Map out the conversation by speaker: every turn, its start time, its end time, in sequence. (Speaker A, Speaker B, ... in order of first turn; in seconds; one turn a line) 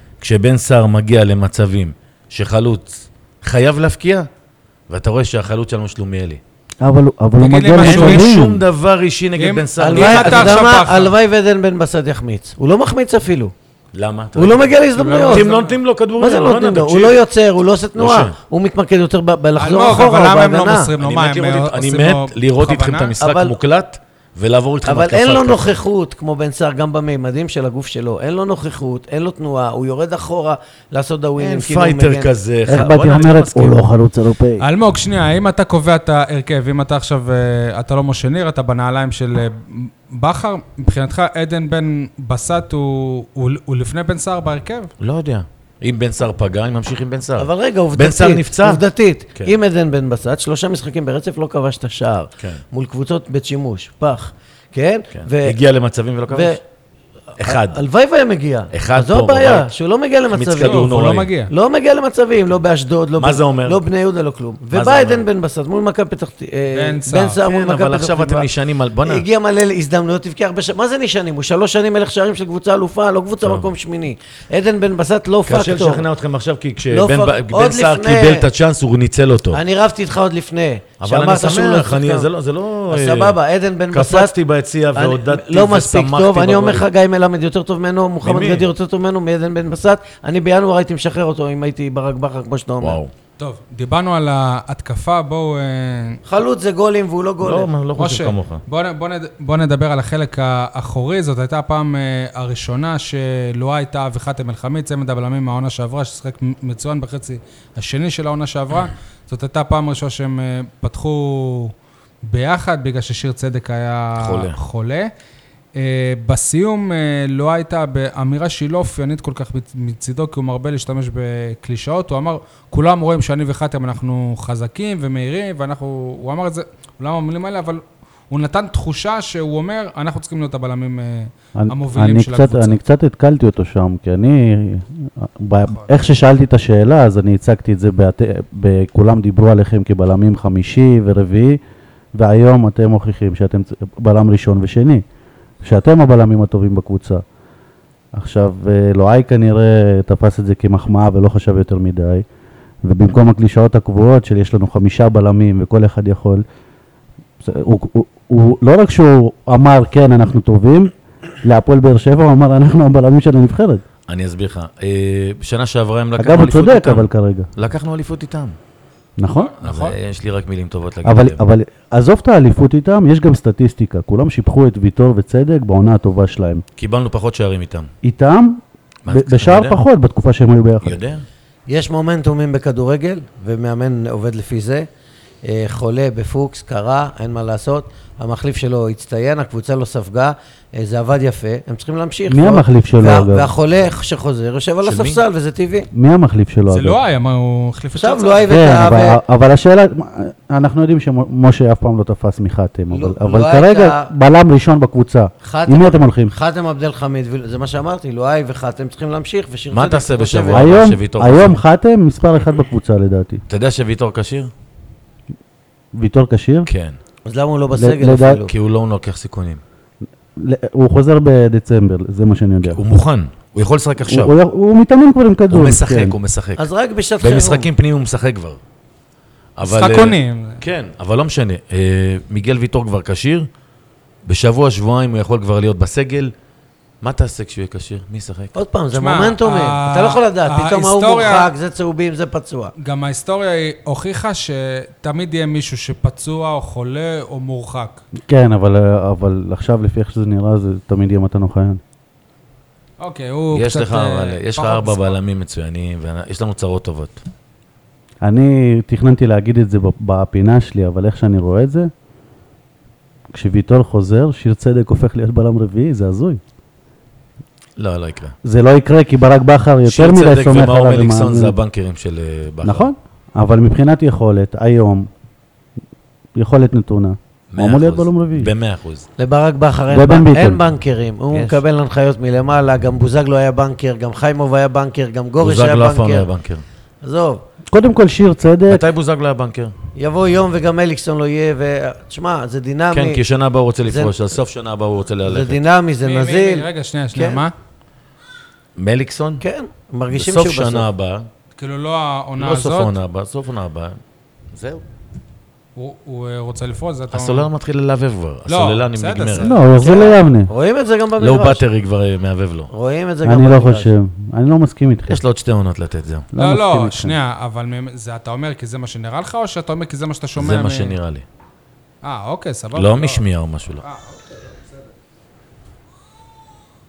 Speaker A: 0.2-4.3
Speaker A: 4.9-6.4
Speaker B: 6.8-8.6
Speaker C: 7.4-8.3
Speaker A: 7.8-10.7
Speaker C: 9.4-11.1
Speaker D: 9.8-13.5
Speaker A: 13.9-17.2
Speaker D: 14.3-15.5
Speaker C: 15.0-15.8
Speaker D: 16.2-20.9
Speaker A: 18.0-18.3
Speaker C: 19.6-23.1
Speaker A: 21.0-25.8
Speaker D: 23.2-23.6
Speaker D: 24.8-32.3
Speaker A: 31.4-33.9
Speaker B: 32.7-34.6
Speaker C: 34.6-44.9
Speaker A: 45.0-48.8
Speaker D: 47.4-55.6
Speaker A: 55.1-56.6
Speaker D: 56.3-56.6
Speaker A: 57.4-57.8
Speaker D: 57.4-60.9
Speaker A: 58.7-59.7
Speaker A: 60.3-61.3
Speaker C: 60.6-61.5
Speaker D: 61.5-68.5
Speaker A: 63.2-63.8
Speaker A: 64.7-65.2
Speaker C: 66.7-67.4
Speaker A: 67.4-69.2
Speaker D: 69.0-76.0
Speaker A: 73.4-73.7
Speaker A: 75.5-79.6
Speaker D: 76.9-78.5
Speaker D: 79.5-82.3
Speaker A: 81.0-83.4
Speaker D: 82.9-84.3
Speaker A: 83.9-86.8
Speaker D: 85.0-93.0
Speaker A: 88.2-88.7
Speaker A: 92.8-93.1
Speaker C: 93.4-96.2
Speaker D: 96.2-97.7
Speaker A: 97.4-98.6
Speaker C: 98.0-111.7
Speaker C: 112.3-115.1
Speaker A: 114.2-114.6
Speaker C: 115.8-132.8
Speaker B: 131.6-141.6
Speaker B: 142.2-145.0
Speaker B: 145.6-147.2
Speaker B: 148.1-152.2
Speaker B: 152.8-156.4
Speaker B: 157.4-160.9
Speaker B: 161.4-163.8
Speaker A: 164.1-168.6
Speaker B: 166.2-167.5
Speaker B: 169.2-169.5
Speaker C: 169.3-169.9
Speaker A: 169.6-171.4
Speaker B: 171.0-176.6
Speaker A: 176.8-177.9
Speaker B: 178.0-181.0
Speaker A: 179.0-179.8
Speaker A: 180.8-181.2
Speaker D: 181.7-184.9
Speaker D: 185.4-195.9
Speaker B: 192.3-193.5
Speaker A: 194.8-195.2
Speaker B: 195.9-197.0
Speaker C: 196.7-198.8
Speaker D: 197.9-199.2
Speaker B: 198.5-206.3
Speaker D: 202.9-204.1
Speaker D: 205.4-210.9
Speaker A: 209.7-211.6
Speaker B: 210.5-213.4
Speaker A: 213.5-214.5
Speaker B: 215.9-216.7
Speaker A: 216.7-217.0
Speaker D: 217.2-218.5
Speaker B: 217.7-218.4
Speaker A: 218.5-219.6
Speaker B: 220.3-222.8
Speaker A: 222.6-224.3
Speaker B: 224.1-226.2
Speaker A: 225.5-226.7
Speaker D: 226.6-227.7
Speaker A: 227.2-228.6
Speaker A: 229.6-233.5
Speaker C: 229.6-230.6
Speaker A: 234.2-236.3
Speaker A: 237.0-238.6
Speaker D: 238.5-242.7
Speaker C: 238.9-241.5
Speaker C: 242.8-248.0
Speaker B: 248.2-251.8
Speaker C: 253.0-255.2
Speaker A: 253.5-257.2
Speaker B: 258.2-261.9
Speaker B: 263.3-266.4
Speaker A: 267.8-268.4
Speaker B: 268.4-271.6
Speaker A: 269.9-272.9
Speaker B: 272.6-275.1
Speaker B: 276.4-278.5
Speaker A: 277.5-279.1
Speaker D: 279.2-286.3
Speaker B: 279.9-280.6
Speaker A: 281.3-281.6
Speaker A: 285.4-286.6
Speaker D: 287.0-287.4
Speaker B: 287.7-288.8
Speaker A: 288.7-289.7
Speaker D: 289.9-293.2
Speaker A: 292.9-295.6
Speaker D: 293.9-294.1
Speaker D: 295.2-297.4
Speaker C: 296.0-297.5
Speaker A: 298.8-299.4
Speaker D: 299.4-300.9
Speaker A: 300.1-301.3
Speaker C: 301.6-302.9
Speaker A: 302.4-304.0
Speaker A: 304.5-304.8
Speaker C: 305.8-307.5
Speaker A: 307.1-309.6
Speaker C: 308.5-309.6
Speaker B: 309.4-310.5
Speaker D: 309.8-311.6
Speaker A: 311.2-312.7
Speaker D: 312.7-313.9
Speaker B: 313.2-315.2
Speaker A: 315.1-316.3
Speaker B: 316.3-317.1
Speaker C: 316.4-320.9
Speaker A: 320.4-321.2
Speaker C: 322.0-323.2
Speaker A: 322.7-323.8
Speaker C: 323.8-324.9